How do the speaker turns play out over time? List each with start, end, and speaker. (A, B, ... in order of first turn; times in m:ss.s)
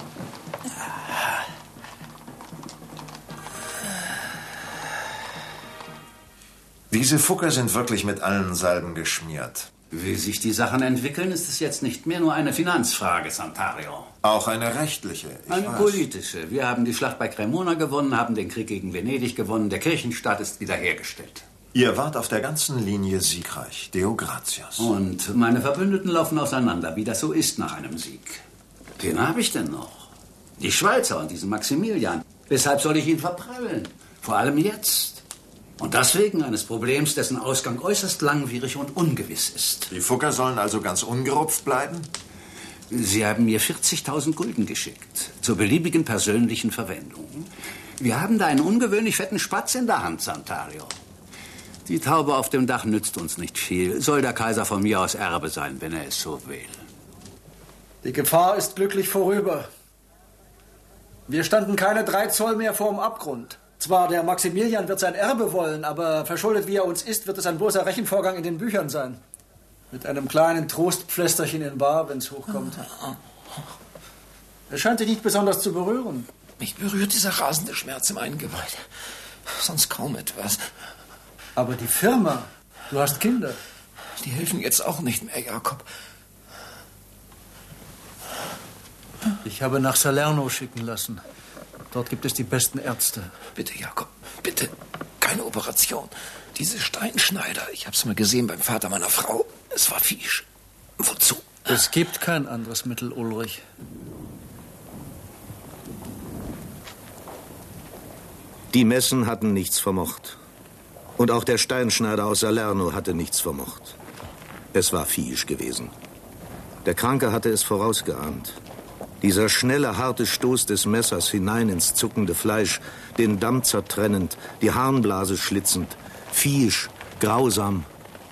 0:06.9-0:09.7 A
0:09.9-0:14.1 B
0:14.2-0:16.0 A
0:15.5-0:21.5 B
0:21.7-0:24.9 A
0:24.8-0:28.4 B
0:29.0-0:35.2 B
0:35.8-0:39.9 B
0:39.9-0:42.1 A
0:42.9-0:50.9 B
0:51.9-0:56.8 B
0:58.0-0:59.7 C
1:01.3-1:09.2 C
1:09.9-1:12.8 C
1:14.7-1:16.3 C
1:16.6-1:18.8 D
1:19.5-1:20.6 D
1:21.6-1:23.6 C
1:24.2-1:25.9 D
1:29.4-1:31.2 C
1:31.9-1:33.4 C
1:33.6-1:40.4 D
1:41.0-1:41.6 D
1:41.7-1:43.6 C
1:48.7-1:50.4 E
1:51.2-1:54.0 E
1:54.7-1:55.9 E
1:56.8-1:58.6 E
1:59.2-2:07.9 E